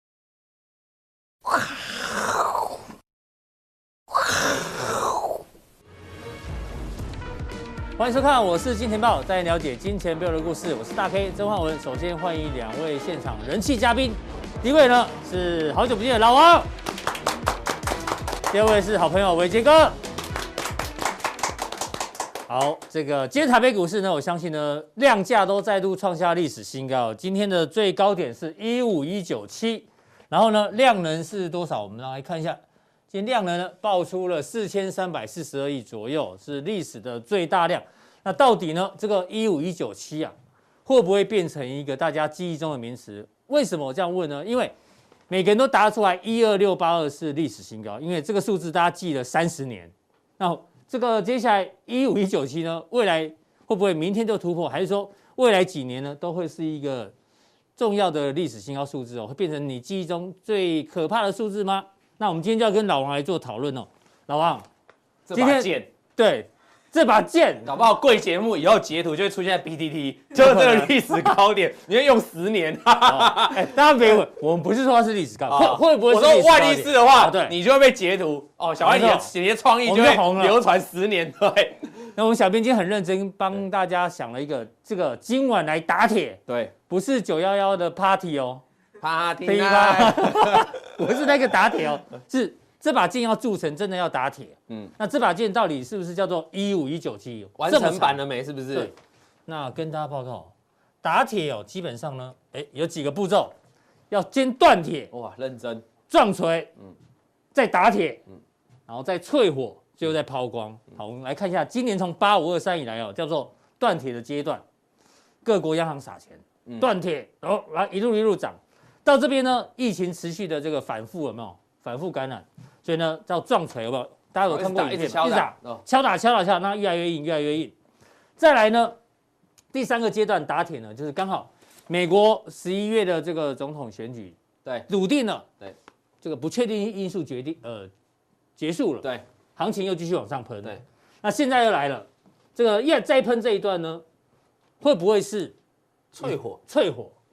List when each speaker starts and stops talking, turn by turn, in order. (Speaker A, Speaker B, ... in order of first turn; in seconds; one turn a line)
Speaker A: 8.0-16.7
Speaker A: 18.5-19.9
Speaker A: 22.5-32.6
Speaker A: 33.1-40.3
Speaker A: 40.8-44.7
Speaker A: 45.3-57.1
Speaker A: 57.8-64.6
Speaker B: 65.3-65.9
Speaker A: 65.3-67.7
Speaker B: 67.6-73.7
Speaker A: 70.3-71.0
Speaker A: 73.0-77.5
Speaker B: 75.5-82.0
Speaker A: 78.8-79.3
Speaker A: 79.8-80.6
Speaker A: 82.1-88.6
Speaker B: 86.5-86.7
Speaker B: 89.0-91.1
Speaker A: 89.4-98.2
Speaker B: 97.6-98.9
Speaker A: 99.5-100.5
Speaker A: 101.0-103.5
Speaker A: 104.1-105.1
Speaker B: 105.1-105.8
Speaker A: 106.1-106.7
Speaker A: 107.5-108.2
Speaker A: 108.9-114.6
Speaker A: 115.4-127.7
Speaker B: 124.5-125.8
Speaker A: 128.4-128.9
Speaker A: 129.7-135.5
Speaker A: 136.2-137.9
Speaker A: 138.6-144.0
Speaker A: 144.8-145.5
Speaker B: 146.1-146.6
Speaker A: 146.2-147.1